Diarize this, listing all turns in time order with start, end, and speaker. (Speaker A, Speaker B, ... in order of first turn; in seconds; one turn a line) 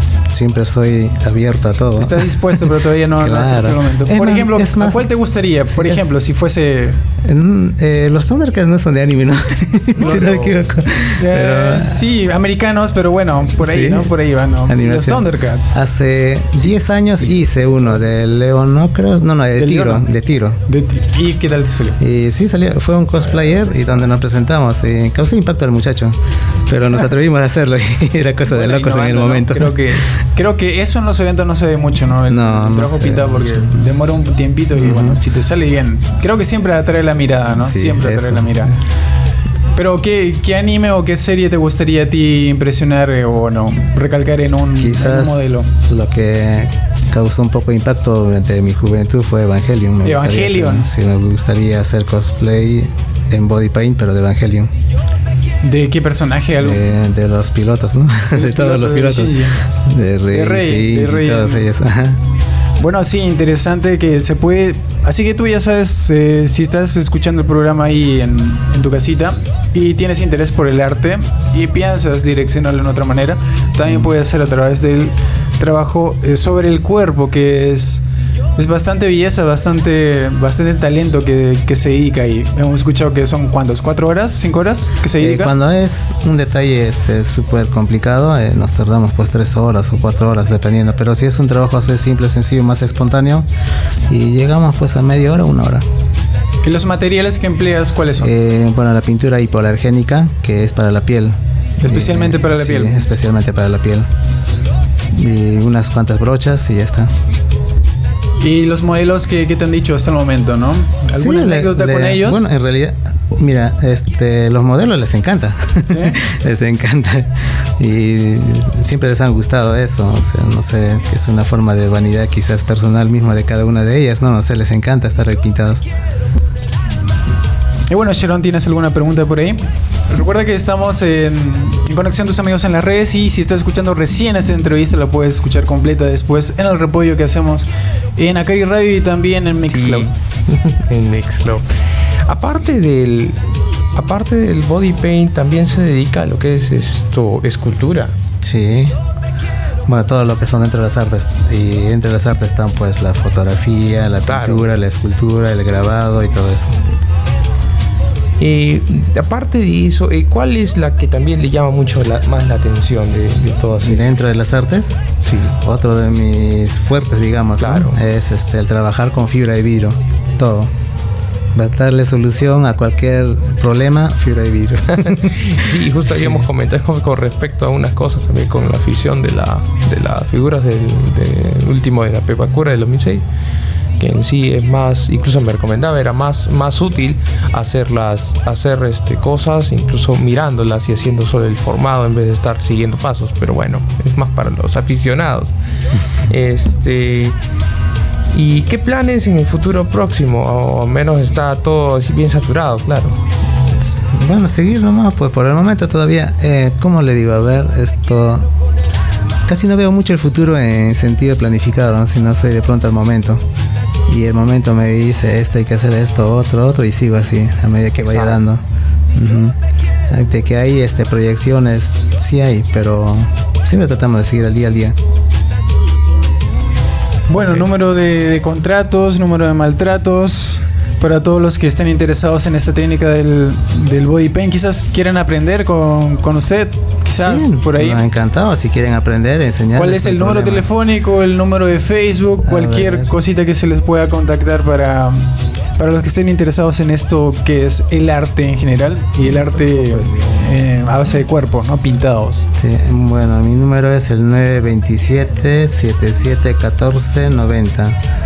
Speaker A: 0.3-5.1
Speaker B: 2.0-7.0
Speaker A: 5.7-6.0
Speaker A: 7.2-12.1
Speaker B: 10.0-10.6
Speaker C: 10.0-10.5
Speaker B: 11.2-15.8
Speaker A: 13.6-14.1
Speaker A: 14.7-20.6
Speaker B: 16.6-17.4
Speaker B: 19.6-20.1
Speaker B: 20.7-22.0
Speaker A: 22.0-29.8
Speaker B: 23.2-24.1
Speaker B: 28.5-38.7
Speaker A: 32.3-33.8
Speaker A: 34.8-35.2
Speaker A: 37.6-38.6
Speaker B: 39.8-45.7
Speaker A: 44.8-54.7
Speaker B: 50.0-50.9
Speaker B: 55.6-56.8
Speaker A: 56.6-59.4
Speaker B: 58.3-59.5
Speaker A: 59.9-62.2
Speaker B: 60.3-61.7
Speaker B: 62.8-78.0
Speaker B: 78.6-85.5
Speaker A: 85.2-93.5
Speaker A: 94.1-95.8
Speaker B: 96.6-98.3
Speaker A: 98.2-104.1
Speaker B: 101.8-103.0
Speaker A: 105.1-107.1
Speaker B: 108.4-112.4
Speaker A: 111.1-125.8
Speaker B: 115.9-116.2
Speaker B: 127.9-140.1
Speaker C: 139.7-141.7
Speaker C: 142.2-143.4
Speaker C: 143.9-148.1
Speaker A: 148.4-149.0
Speaker A: 149.8-156.8
Speaker C: 154.3-154.7
Speaker C: 158.4-164.2
Speaker A: 163.8-165.1
Speaker C: 165.2-165.6
Speaker A: 165.6-170.7
Speaker C: 167.6-168.0
Speaker A: 171.5-175.3
Speaker C: 175.1-183.2
Speaker C: 184.0-195.6
Speaker C: 196.3-197.4
Speaker C: 198.3-203.2
Speaker A: 204.1-208.5
Speaker A: 209.5-213.4
Speaker A: 214.1-218.6
Speaker C: 218.0-218.4
Speaker A: 219.1-219.5
Speaker A: 220.1-224.9
Speaker B: 227.3-238.0
Speaker A: 237.2-240.7
Speaker B: 239.7-252.4
Speaker A: 242.4-243.1
Speaker A: 252.5-258.0